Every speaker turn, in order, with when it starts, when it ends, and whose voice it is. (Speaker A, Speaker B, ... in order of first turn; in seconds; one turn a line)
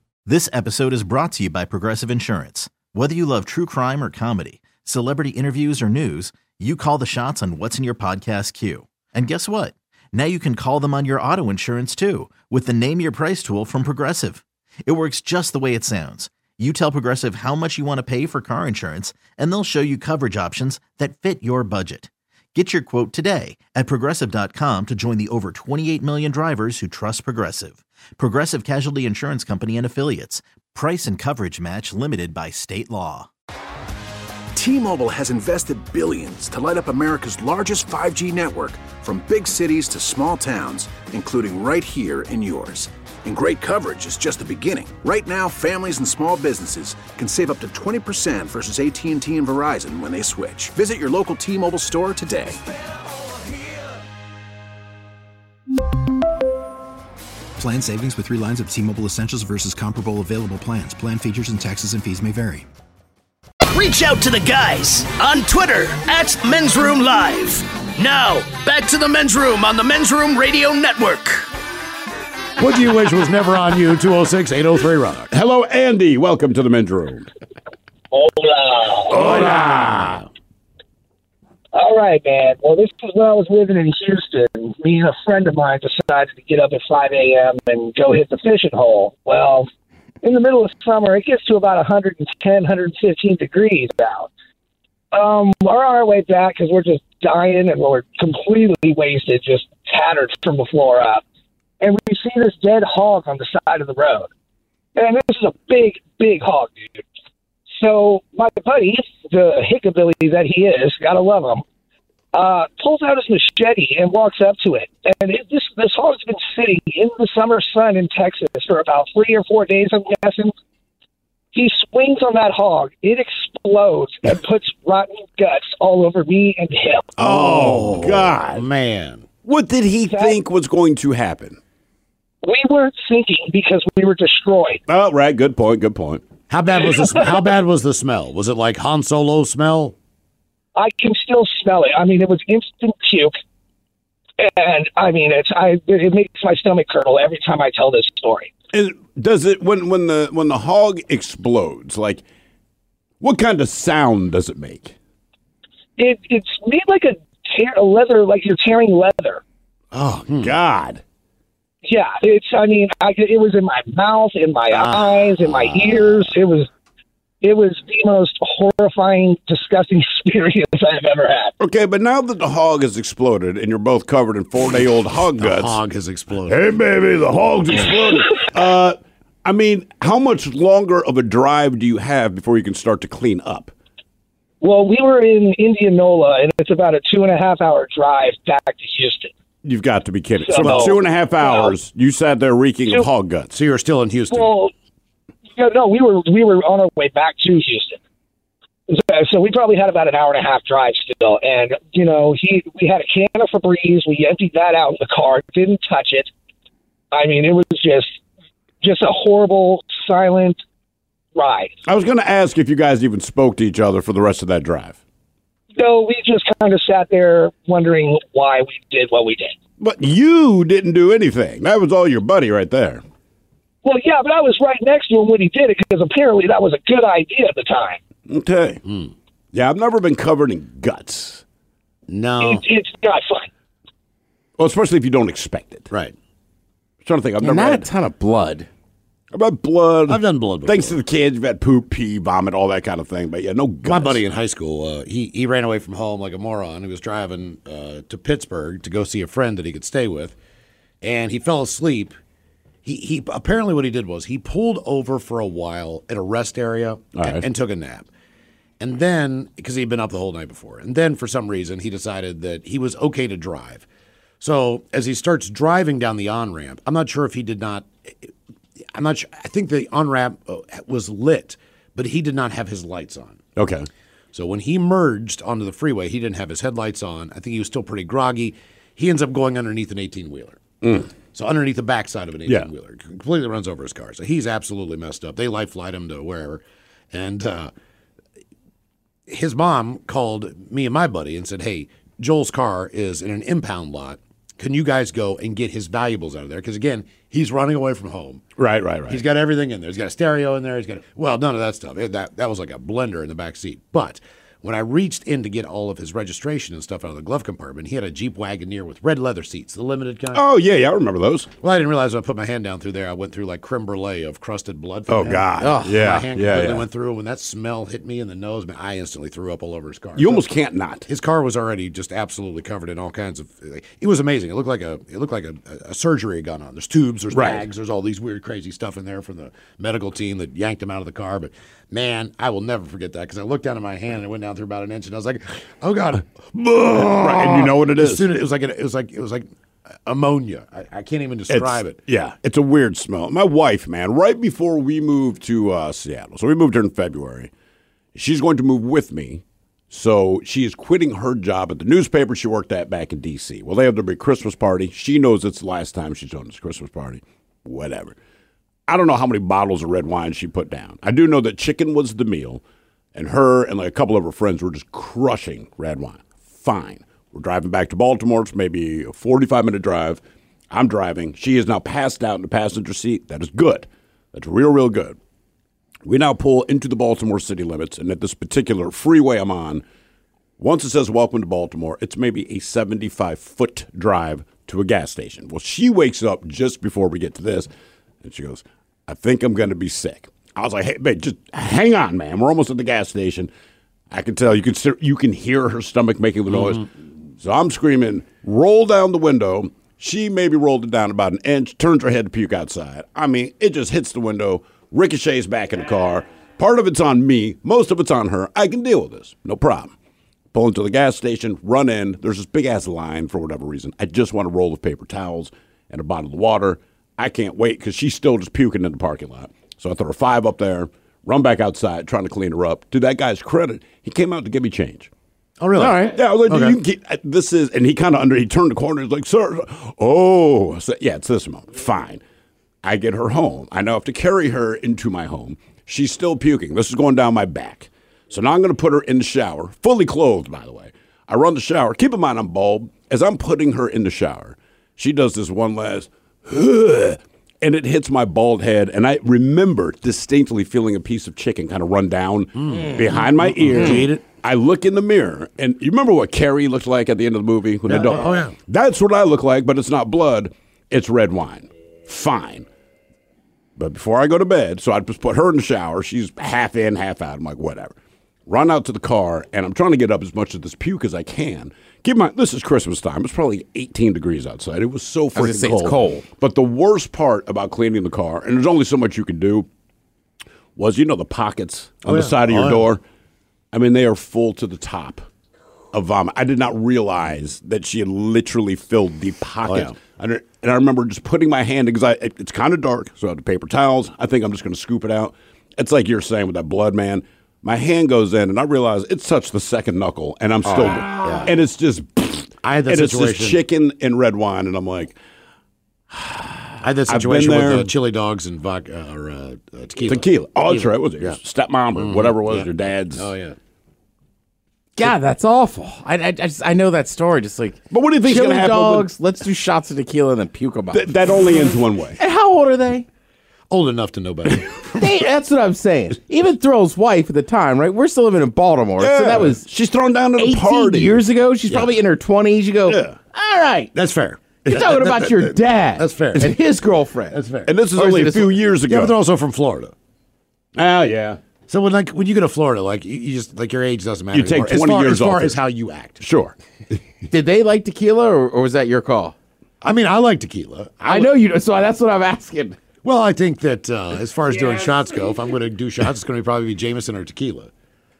Speaker A: 0.3-33.3
Speaker B: 34.5-52.6
Speaker C: 57.6-62.7
Speaker D: 63.7-71.5
Speaker E: 72.6-75.3
Speaker F: 75.3-77.3
Speaker G: 78.1-79.3
Speaker F: 79.1-80.2
Speaker E: 79.2-80.1
Speaker G: 81.7-89.7
Speaker G: 90.2-94.3
Speaker G: 95.1-101.2
Speaker G: 101.8-104.3
Speaker G: 105.0-107.0
Speaker G: 107.7-111.6
Speaker G: 112.3-120.5
Speaker G: 121.5-127.1
Speaker F: 127.2-128.7
Speaker E: 127.2-129.3
Speaker F: 129.4-131.6
Speaker G: 130.1-130.4
Speaker G: 132.4-134.8
Speaker F: 134.9-136.2
Speaker E: 136.5-139.9
Speaker G: 140.8-143.4
Speaker G: 144.4-148.5
Speaker F: 148.7-152.2
Speaker F: 153.2-154.9
Speaker G: 156.0-159.4
Speaker E: 159.9-160.6
Speaker F: 160.3-161.0
Speaker G: 161.8-166.7
Speaker E: 164.7-166.3
Speaker G: 167.4-171.5
Speaker F: 171.6-175.8
Speaker E: 175.4-176.7
Speaker F: 176.5-183.7
Speaker G: 184.6-189.3
Speaker F: 189.6-193.6
Speaker G: 190.4-191.8
Speaker E: 190.6-190.9
Speaker E: 193.5-194.5
Speaker G: 194.3-194.7
Speaker G: 195.6-198.0
Speaker G: 198.9-206.3
Speaker G: 207.1-208.2
Speaker G: 208.8-210.6
Speaker G: 211.3-211.8
Speaker F: 211.9-215.0
Speaker G: 215.8-219.6
Speaker F: 219.8-223.0
Speaker G: 223.8-228.0
Speaker F: 228.3-228.8
Speaker E: 228.9-229.1
Speaker F: 229.5-231.4
Speaker E: 232.1-232.6
Speaker G: 232.4-233.5
Speaker F: 234.6-235.9
Speaker F: 237.0-237.9
Speaker H: 237.4-238.7
Speaker F: 239.3-244.2
Speaker E: 240.1-241.0
Speaker E: 243.8-250.4
Speaker E: 251.0-252.2
Speaker E: 252.8-258.1
Speaker F: 257.2-257.4
Speaker E: 258.8-263.9
Speaker E: 264.4-268.3
Speaker E: 268.9-273.4
Speaker F: 273.6-273.9
Speaker E: 274.3-287.7
Speaker F: 280.8-281.1
Speaker E: 289.3-298.4
Speaker F: 298.6-299.2
Speaker E: 299.1-310.4
Speaker F: 310.3-311.5
Speaker E: 311.6-320.5
Speaker F: 315.1-316.9
Speaker H: 315.6-316.0
Speaker F: 320.2-321.1
Speaker E: 321.1-339.5
Speaker F: 327.3-327.6
Speaker F: 336.8-338.3
Speaker E: 340.1-342.0
Speaker F: 341.5-347.5
Speaker F: 348.1-358.2
Speaker F: 358.9-362.6
Speaker F: 363.1-375.2
Speaker F: 376.1-379.8
Speaker F: 380.6-387.7
Speaker F: 388.2-393.5
Speaker F: 394.1-396.9
Speaker E: 396.5-396.8
Speaker F: 397.4-409.9
Speaker F: 410.5-425.1
Speaker E: 425.6-426.8
Speaker H: 425.8-426.2
Speaker F: 426.1-432.2
Speaker F: 432.8-462.7
Speaker E: 452.6-454.2
Speaker E: 457.9-458.6
Speaker F: 463.8-467.9
Speaker F: 468.5-479.7
Speaker H: 475.4-476.2
Speaker F: 480.8-483.0
Speaker E: 482.1-482.9
Speaker F: 483.7-485.3
Speaker F: 485.9-505.2
Speaker E: 489.6-490.0
Speaker E: 500.7-501.5
Speaker E: 502.6-503.6
Speaker F: 506.1-506.5
Speaker E: 506.8-511.4
Speaker F: 507.1-507.9
Speaker F: 510.1-513.3
Speaker E: 511.9-513.6
Speaker H: 515.0-521.1
Speaker F: 517.9-519.1
Speaker F: 520.9-522.2
Speaker H: 522.2-523.0
Speaker E: 523.7-524.8
Speaker H: 525.0-529.7
Speaker F: 529.0-531.2
Speaker H: 530.4-533.9
Speaker F: 532.9-533.2
Speaker E: 533.9-536.6
Speaker H: 534.7-537.4
Speaker E: 537.3-538.3
Speaker F: 537.7-539.2
Speaker H: 538.0-538.5
Speaker E: 538.9-539.9
Speaker F: 540.8-541.4
Speaker E: 541.7-546.2
Speaker F: 544.3-545.6
Speaker F: 546.2-546.5
Speaker H: 547.3-549.4
Speaker E: 549.8-551.4
Speaker H: 551.1-552.8
Speaker E: 553.0-557.7